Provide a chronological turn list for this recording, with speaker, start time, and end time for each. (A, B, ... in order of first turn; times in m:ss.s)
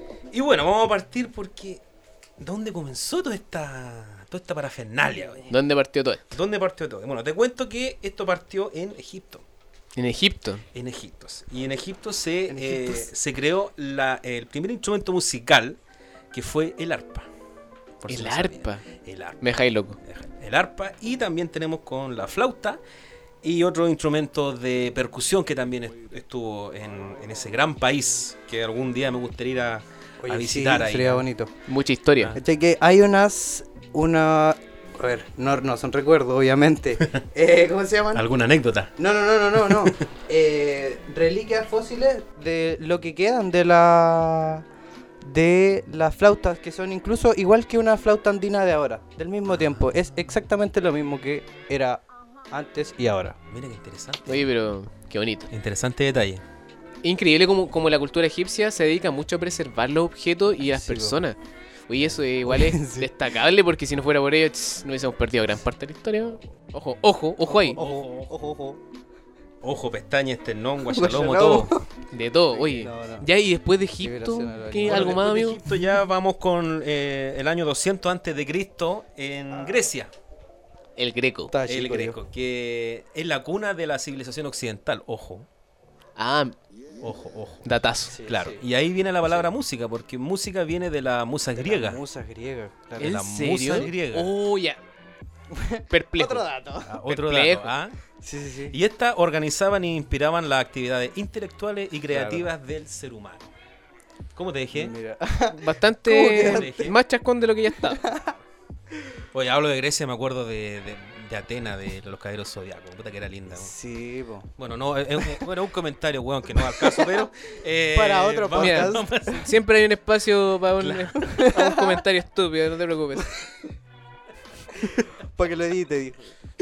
0:00.3-0:01.8 A
0:02.4-0:05.5 A
0:05.1-0:05.5 B
0:05.5-0:06.3 C
0:06.3-0:09.4 A
0:10.0-0:10.6 C
0:10.7-0:15.8 A
0:12.5-0:13.1 B
0:16.3-0:17.3 A
0:18.0-0:19.4 A
0:18.1-0:18.9 C
0:19.4-0:20.0 C
0:20.0-0:22.8 A
0:23.4-0:31.2 A
0:30.2-0:31.5 B
0:31.7-0:32.3 C
0:32.3-0:38.2 B
0:38.1-0:38.9 A
0:39.0-0:44.6 B
0:39.7-0:40.0 A
0:45.2-0:53.4 B
0:49.4-0:50.2 A
0:53.5-0:54.5 A
0:54.3-0:55.5 C
0:55.5-0:56.4 A
0:57.0-1:01.4 C
1:00.6-1:01.2 B
1:01.9-1:07.8 C
1:02.4-1:03.1 B
1:07.4-1:08.8 B
1:07.6-1:08.4 A
1:09.6-1:11.8 A
1:10.8-1:11.9 B
1:12.1-1:15.6 C
1:12.5-1:13.3 B
1:14.0-1:15.2 B
1:14.7-1:20.1 A
1:19.6-1:19.9 B
1:21.0-1:21.5 C
1:21.5-1:22.2 B
1:21.6-1:25.5 A
1:26.2-1:26.5 C
1:27.0-1:27.6 A
1:27.6-1:28.2 C
1:28.1-1:28.6 B
1:28.2-1:32.0 A
1:31.6-1:33.9 B
1:33.0-1:34.8 C
1:33.0-1:34.3 A
1:35.5-1:37.0 B
1:35.9-1:36.4 C
1:36.8-1:38.0 A
1:37.0-1:37.7 C
1:38.2-1:38.8 B
1:38.7-1:43.5 A
1:42.1-1:42.5 B
1:44.3-1:45.0 A
1:44.7-1:47.0 B
1:45.5-1:48.1 C
1:46.3-1:47.0 A
1:47.8-1:48.4 B
1:49.3-1:53.7 A
1:53.5-1:54.5 B
1:54.6-1:59.6 A
1:56.5-1:57.3 B
1:57.9-1:59.4 B
1:58.5-2:03.3 C
2:00.8-2:01.1 A
2:01.2-2:02.0 B
2:04.7-2:06.3 B